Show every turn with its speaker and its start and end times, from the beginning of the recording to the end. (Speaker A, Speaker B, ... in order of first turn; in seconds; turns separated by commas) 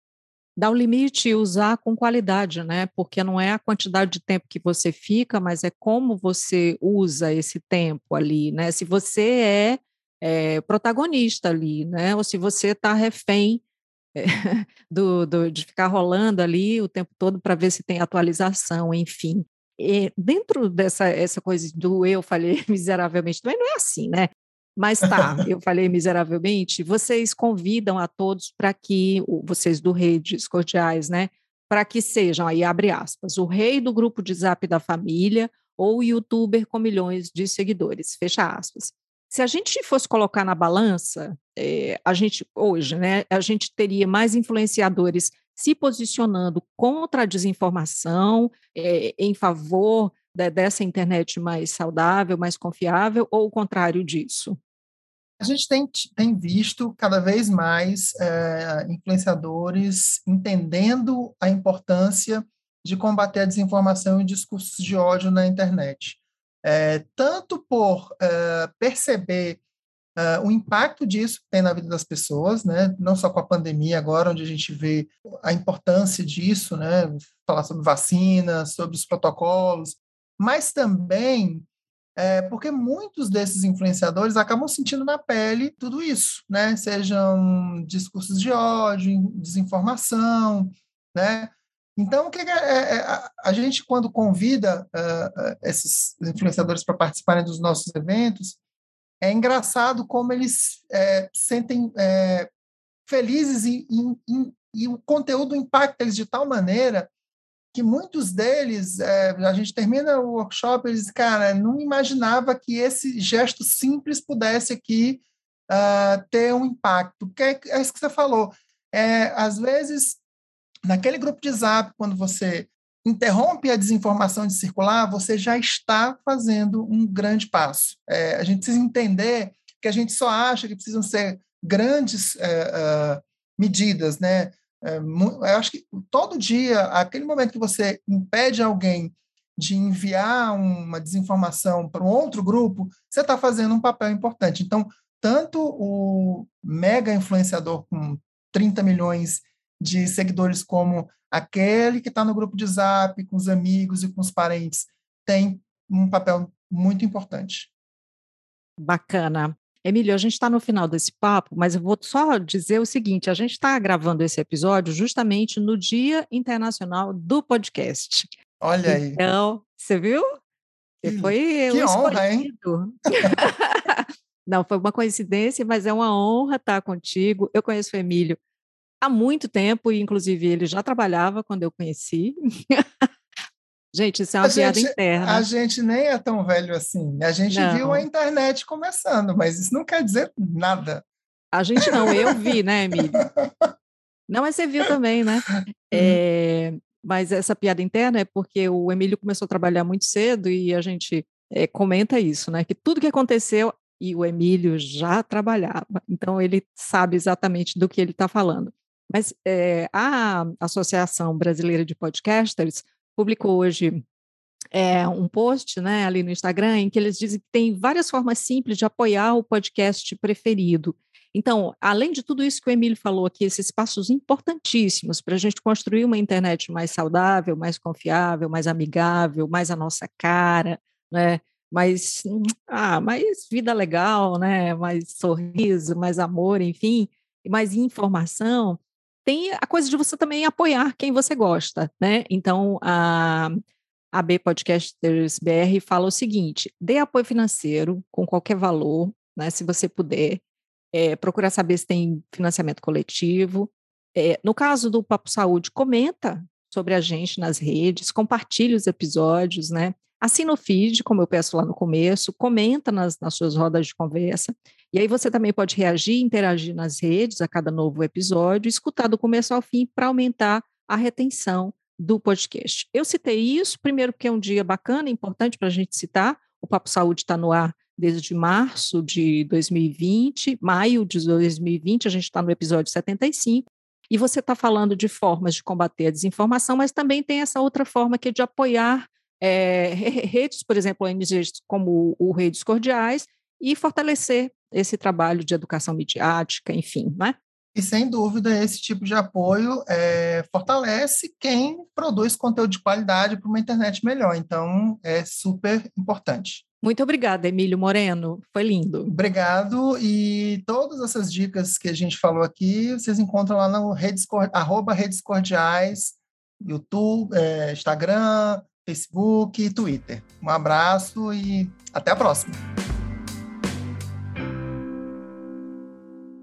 Speaker A: 0.6-13.6, Speaker A: 14.1-54.6, Speaker B: 55.4-69.6, Speaker B: 70.2-98.6, Speaker B: 99.2-102.5, Speaker B: 103.1-107.1, Speaker B: 107.7-120.2, Speaker B: 120.8-157.7, Speaker A: 158.8-168.3, Speaker B: 168.6-169.2, Speaker A: 168.8-170.2, Speaker A: 171.0-178.4, Speaker B: 171.0-172.5, Speaker A: 179.0-183.0, Speaker A: 183.9-185.5, Speaker B: 184.4-191.0, Speaker A: 187.5-188.1, Speaker A: 191.5-193.2, Speaker B: 191.8-192.5, Speaker B: 193.1-193.7, Speaker A: 194.3-214.0, Speaker B: 195.9-196.2, Speaker A: 214.7-243.6, Speaker A: 244.1-250.4, Speaker A: 250.9-297.3, Speaker B: 297.7-306.6, Speaker A: 306.8-309.1, Speaker B: 309.1-322.6